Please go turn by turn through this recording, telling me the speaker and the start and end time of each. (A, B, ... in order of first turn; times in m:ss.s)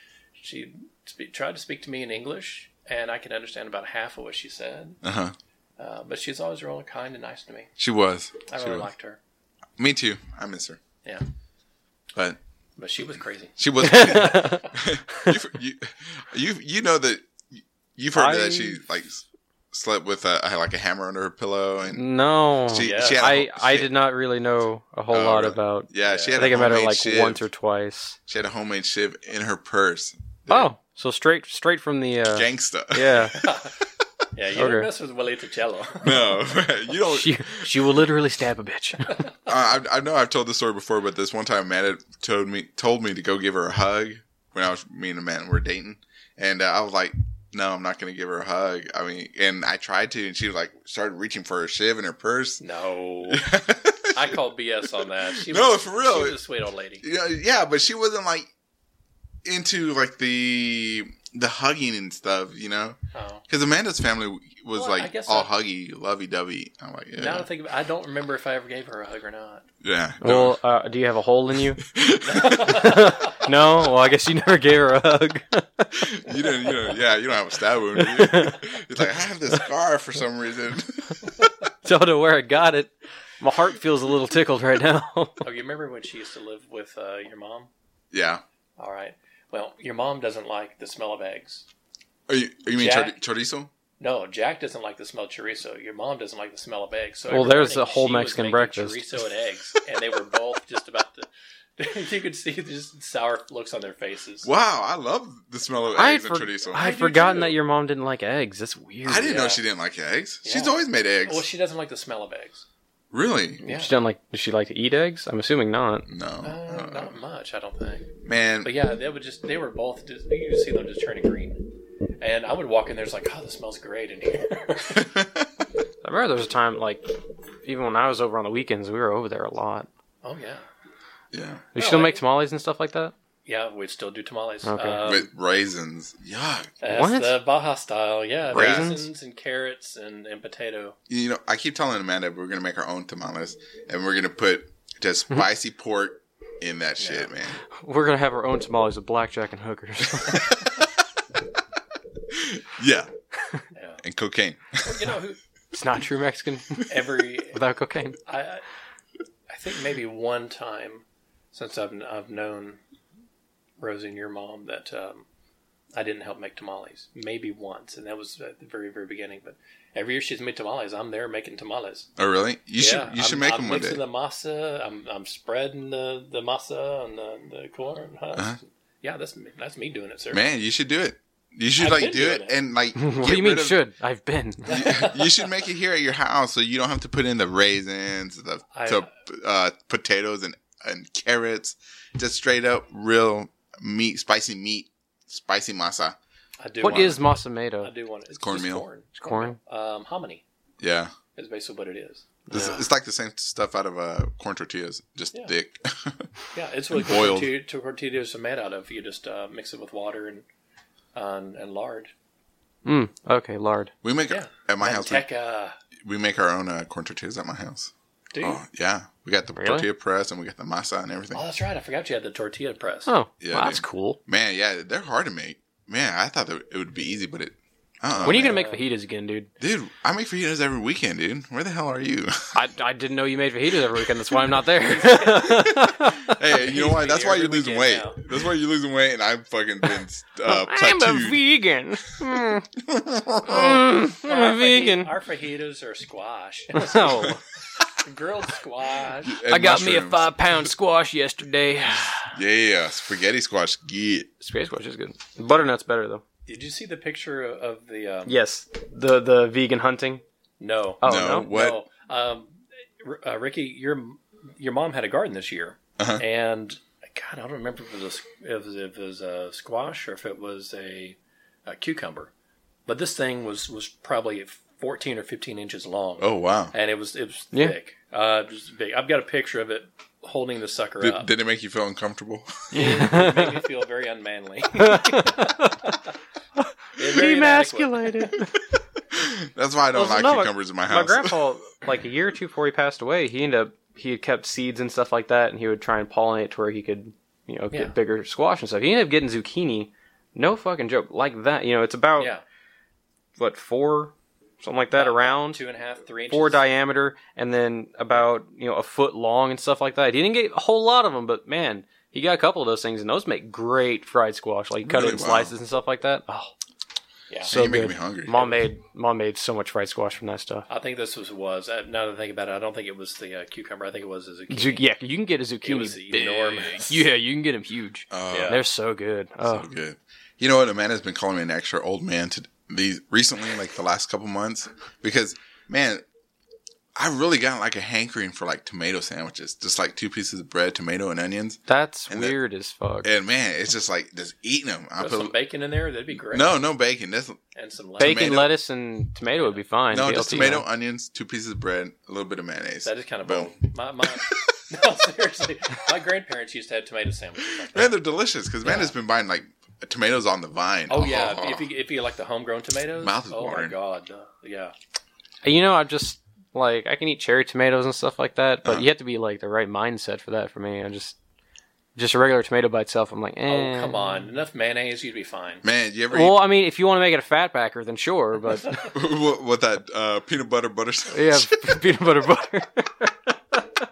0:00.4-0:05.0 A
0:05.0-0:05.3 B
0:05.8-0:07.7 A
0:07.8-0:08.9 B
0:08.5-0:09.2 A
0:09.8-0:10.8 B
0:12.8-0:14.7 A
0:13.6-0:22.0 B
0:13.8-0:15.3 C
0:18.1-0:18.8 C
0:21.9-0:28.2 C
0:22.7-0:23.9 B
0:22.8-0:23.2 A
0:25.1-0:27.4 B
0:26.0-0:26.5 A
0:28.3-0:30.7 B
0:30.5-0:33.4 C
0:32.3-0:33.3 B
0:33.3-0:33.7 A
0:34.3-0:36.2 A
0:34.6-0:34.9 C
0:36.0-0:37.9 B
0:37.0-0:39.2 C
0:39.5-0:52.6 B
0:52.6-0:53.5 A
0:53.3-0:54.4 B
0:54.1-0:57.0 A
0:55.0-0:56.4 B
0:57.0-0:58.5 B
0:59.4-1:03.0 B
1:03.1-1:03.4 A
1:03.5-1:07.5 B
1:04.7-1:05.5 A
1:07.2-1:09.6 A
1:09.8-1:10.6 B
1:10.2-1:11.8 C
1:11.8-1:12.9 B
1:12.2-1:13.4 A
1:12.4-1:16.0 C
1:15.9-1:21.4 B
1:18.0-1:18.8 C
1:21.8-1:25.4 C
1:25.4-1:27.7 A
1:28.1-1:28.4 B
1:28.8-1:31.6 A
1:32.3-1:33.7 B
1:32.7-1:33.2 A
1:34.0-1:44.5 A
1:37.3-1:39.0 C
1:44.4-1:47.5 B
1:45.9-1:49.5 C
1:47.0-1:47.4 A
1:49.0-1:51.5 B
1:49.3-1:49.6 A
1:50.4-1:52.6 A
1:53.1-1:53.6 B
1:53.6-1:53.9 A
1:53.6-1:56.1 C
1:56.1-1:57.1 B
1:56.4-1:58.1 A
1:58.2-1:58.7 B
1:58.6-2:01.6 A
2:02.2-2:05.1 A
2:04.9-2:05.5 B
2:06.0-2:09.9 C
2:10.2-2:10.6 A
2:11.3-2:11.6 B
2:11.7-2:13.1 C
2:11.8-2:12.2 A
2:13.4-2:15.3 A
2:14.6-2:15.0 C
2:15.0-2:16.7 B
2:16.8-2:21.0 A
2:16.9-2:17.4 C
2:18.5-2:19.0 C
2:18.5-2:18.9 B
2:21.1-2:27.6 B
2:27.0-2:27.3 A
2:27.7-2:30.6 C
2:32.3-2:33.1 B
2:33.7-2:34.0 A
2:34.0-2:35.1 B
2:34.8-2:35.4 A
2:35.7-2:38.2 C
2:36.9-2:37.6 A
2:38.2-2:38.6 A
2:39.5-2:42.8 A
2:43.8-2:45.2 A
2:45.9-2:52.1 A
2:52.2-2:54.0 B
2:52.8-3:00.4 A
2:58.3-2:58.6 B
3:00.3-3:03.8 B
3:01.8-3:02.6 A
3:03.0-3:04.7 C
3:04.6-3:05.4 A
3:04.6-3:16.2 B
3:08.7-3:09.1 A
3:16.6-3:17.3 A
3:16.8-3:17.9 C
3:16.8-3:17.1 B
3:17.8-3:20.4 A
3:18.4-3:18.8 B
3:19.2-3:19.6 C
3:20.8-3:21.1 B
3:21.3-3:22.3 A
3:22.5-3:26.3 B
3:22.5-3:22.8 C
3:26.5-3:30.4 A
3:26.9-3:27.5 B
3:31.1-3:32.1 A
3:32.8-3:33.9 C
3:34.0-3:35.2 B
3:34.3-3:35.8 A
3:36.0-3:41.4 B
3:38.3-3:38.6 A
3:39.6-3:39.9 C
3:41.3-3:43.1 A
3:43.1-3:44.2 C
3:43.4-3:48.6 B
3:48.2-3:48.8 A
3:48.2-3:49.5 C
3:49.6-3:52.6 B
3:52.5-3:56.4 C
3:55.0-3:55.5 A
3:55.7-4:01.4 B
3:56.6-3:58.2 A
4:00.4-4:02.7 C
4:02.8-4:03.9 B
4:03.5-4:05.1 C
4:04.2-4:09.4 A
4:06.7-4:07.4 C
4:09.2-4:10.6 B
4:09.5-4:12.4 C
4:12.3-4:14.3 B
4:14.4-4:16.2 C
4:16.4-4:18.4 A
4:18.2-4:20.2 C
4:20.6-4:32.3 A
4:21.0-4:21.5 C
4:21.0-4:21.8 B
4:26.0-4:26.2 B
4:32.9-4:41.3 A
4:36.2-4:36.7 B
4:41.0-4:42.7 B
4:42.7-4:45.7 A
4:42.7-4:43.6 C
4:44.8-4:45.9 C
4:46.6-4:48.6 C
4:47.0-4:48.3 A
4:49.1-4:51.4 B
4:49.9-5:02.3 C
5:02.2-5:02.4 A
5:03.4-5:05.6 C
5:04.9-5:06.6 A
5:06.3-5:16.5 C
5:14.8-5:15.5 B
5:17.3-5:17.5 A
5:17.5-5:18.4 B
5:17.5-5:20.7 C
5:20.7-5:24.8 A
5:24.5-5:29.7 C
5:25.6-5:27.0 A
5:28.1-5:28.6 B
5:28.3-5:28.6 A
5:29.4-5:36.0 B
5:37.0-5:42.4 B
5:41.7-5:43.1 C
5:43.0-5:45.3 B
5:45.0-5:46.6 A
5:46.3-5:47.4 B
5:47.5-5:48.4 A
5:48.0-5:48.5 B
5:48.0-5:50.6 C
5:49.3-5:49.6 A
5:49.9-5:53.5 B
5:52.8-5:58.0 A
5:57.7-6:01.6 B
5:58.6-5:58.9 A
6:00.9-6:04.7 A
6:03.0-6:03.8 B
6:05.4-6:11.2 C
6:12.0-6:14.3 C
6:13.5-6:15.6 A
6:15.6-6:16.4 B
6:16.1-6:18.9 C
6:18.8-6:21.8 B
6:21.1-6:23.6 C